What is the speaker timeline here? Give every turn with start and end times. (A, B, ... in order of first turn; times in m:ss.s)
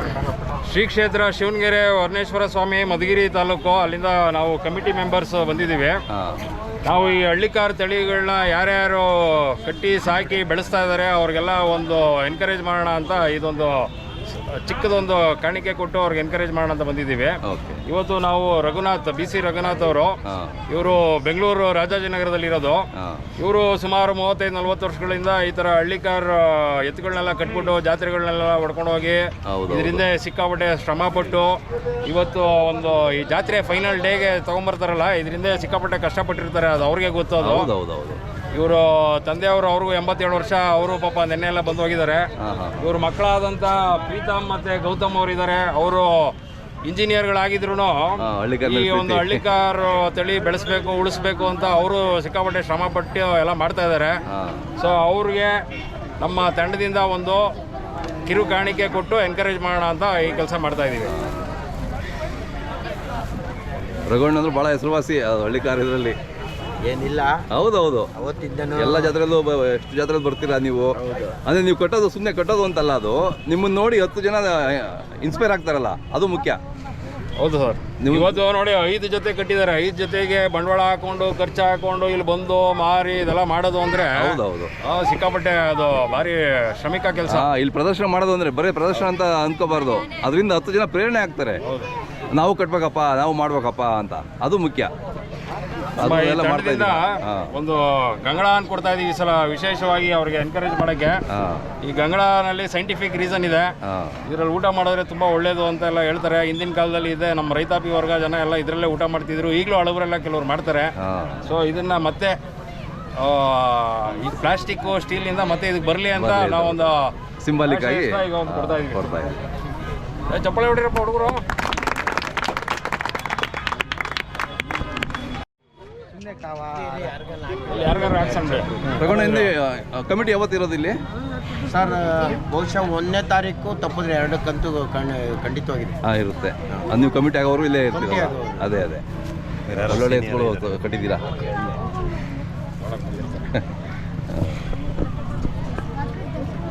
0:00.6-0:06.0 A
0:06.1-0:06.4 B
0:06.8-0:37.7 A
0:17.4-0:17.8 B
0:20.2-0:20.6 B
0:23.0-0:23.3 B
0:29.5-0:30.1 B
0:37.4-0:38.2 B
0:38.5-0:54.2 A
0:42.4-0:42.9 B
0:48.2-0:49.4 B
0:54.3-0:54.7 B
0:54.8-0:55.6 A
0:56.2-0:57.6 A
0:58.3-1:01.1 A
1:01.1-1:01.4 B
1:04.1-1:06.2 B
1:06.8-1:07.4 C
1:07.5-1:08.1 B
1:08.2-1:09.2 C
1:08.7-1:16.6 B
1:11.0-1:11.4 C
1:17.4-1:27.5 A
1:18.0-1:18.4 B
1:24.2-1:24.7 B
1:27.3-1:31.6 B
1:31.6-1:31.9 A
1:32.3-1:34.9 B
1:36.0-1:37.5 B
1:36.0-1:41.2 A
1:41.3-1:41.7 B
1:41.8-1:43.7 A
1:43.8-1:44.2 B
1:44.2-1:50.9 A
1:51.0-1:51.5 B
1:51.4-1:52.4 A
1:53.2-1:59.1 A
1:56.1-1:56.9 B
1:57.4-1:59.4 B
2:00.3-2:01.4 A
2:06.2-2:09.1 C
2:07.7-2:09.5 A
2:09.0-2:11.0 B
2:11.6-2:16.0 C
2:16.0-2:19.0 B
2:17.9-2:18.6 C
2:19.8-2:21.2 B
2:22.8-2:23.5 A
2:24.3-2:24.6 B